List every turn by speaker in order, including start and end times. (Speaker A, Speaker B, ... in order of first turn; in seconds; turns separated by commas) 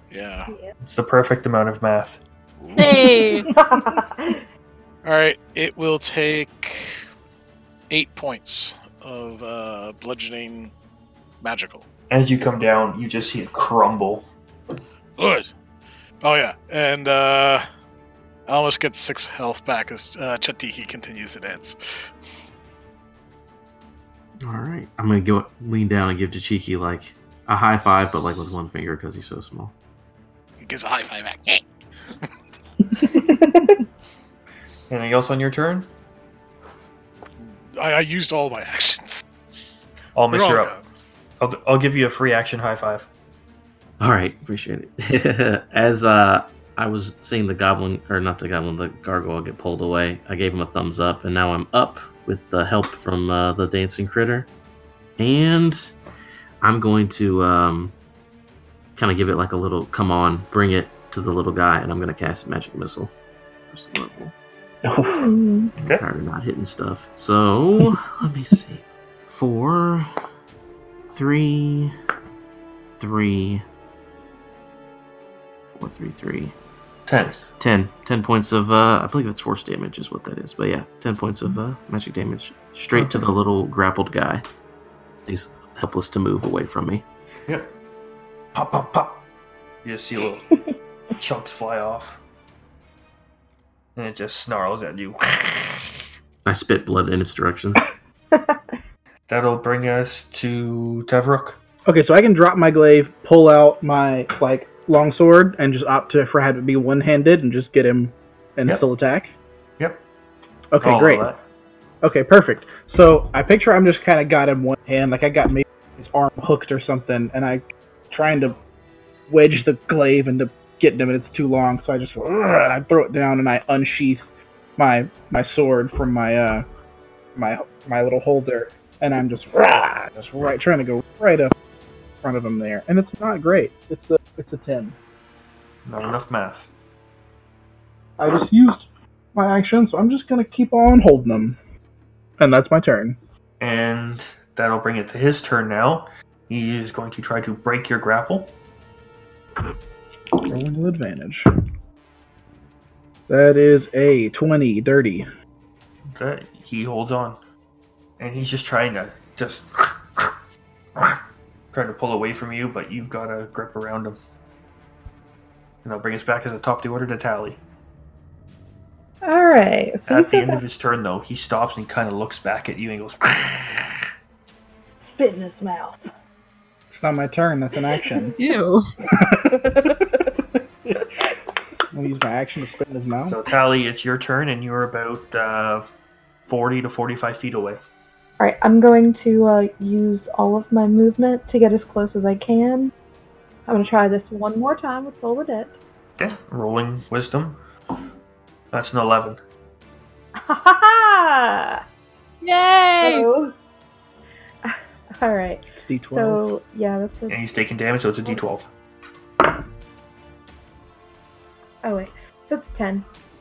Speaker A: 0.1-0.5, Speaker B: 0.8-2.2, Speaker A: 2.6-3.1, Speaker C: 2.8-3.5, Speaker D: 3.5-4.4, Speaker A: 5.0-7.0, Speaker A: 7.9-10.7, Speaker A: 11.4-11.9, Speaker B: 12.1-14.3, Speaker A: 15.2-15.5, Speaker A: 16.2-17.6, Speaker A: 18.5-22.1, Speaker E: 24.4-29.7, Speaker A: 30.6-32.3, Speaker F: 33.0-33.6, Speaker B: 34.9-35.9, Speaker A: 37.4-39.2, Speaker B: 40.1-40.8, Speaker A: 40.3-40.8, Speaker B: 41.4-43.1, Speaker E: 44.0-54.5, Speaker E: 55.2-55.9, Speaker E: 56.6-57.9, Speaker E: 59.0-63.1, Speaker E: 63.7-64.3, Speaker F: 64.8-65.3, Speaker D: 65.1-65.7, Speaker B: 65.8-66.0, Speaker E: 65.8-70.1, Speaker E: 71.1-71.9, Speaker E: 73.0-73.6, Speaker E: 75.7-76.5, Speaker B: 77.1-77.5, Speaker E: 77.5-84.4, Speaker B: 82.9-83.3, Speaker E: 85.3-87.0, Speaker B: 88.5-89.2, Speaker B: 89.8-90.5, Speaker B: 91.2-92.2, Speaker B: 94.0-95.9, Speaker E: 96.5-97.8, Speaker D: 98.3-98.6, Speaker B: 99.3-101.6, Speaker F: 101.9-109.3, Speaker B: 109.8-110.0, Speaker F: 110.7-111.3, Speaker B: 110.8-111.4, Speaker F: 112.0-118.6, Speaker F: 119.3-124.2, Speaker F: 124.8-126.7, Speaker F: 127.3-131.5, Speaker F: 132.2-135.0, Speaker B: 135.9-136.7, Speaker F: 138.2-141.6, Speaker F: 142.4-143.2, Speaker B: 143.6-148.6, Speaker F: 150.5-151.4, Speaker F: 153.3-155.3, Speaker B: 156.1-157.4, Speaker B: 158.2-160.4, Speaker B: 161.7-164.2, Speaker B: 165.8-167.6, Speaker D: 169.2-170.6, Speaker B: 170.1-174.0, Speaker D: 175.2-176.0, Speaker F: 176.9-178.3, Speaker C: 178.4-178.9, Speaker F: 179.2-180.1, Speaker D: 179.6-180.0, Speaker F: 181.9-183.4, Speaker B: 183.3-185.8, Speaker B: 186.5-187.8, Speaker D: 188.4-192.9, Speaker D: 193.7-195.8, Speaker B: 196.2-197.6, Speaker B: 198.7-199.4, Speaker D: 200.4-201.8, Speaker C: 202.4-203.3, Speaker D: 203.0-203.5, Speaker D: 204.6-207.4, Speaker F: 205.9-206.4, Speaker B: 207.3-208.7, Speaker D: 211.8-213.1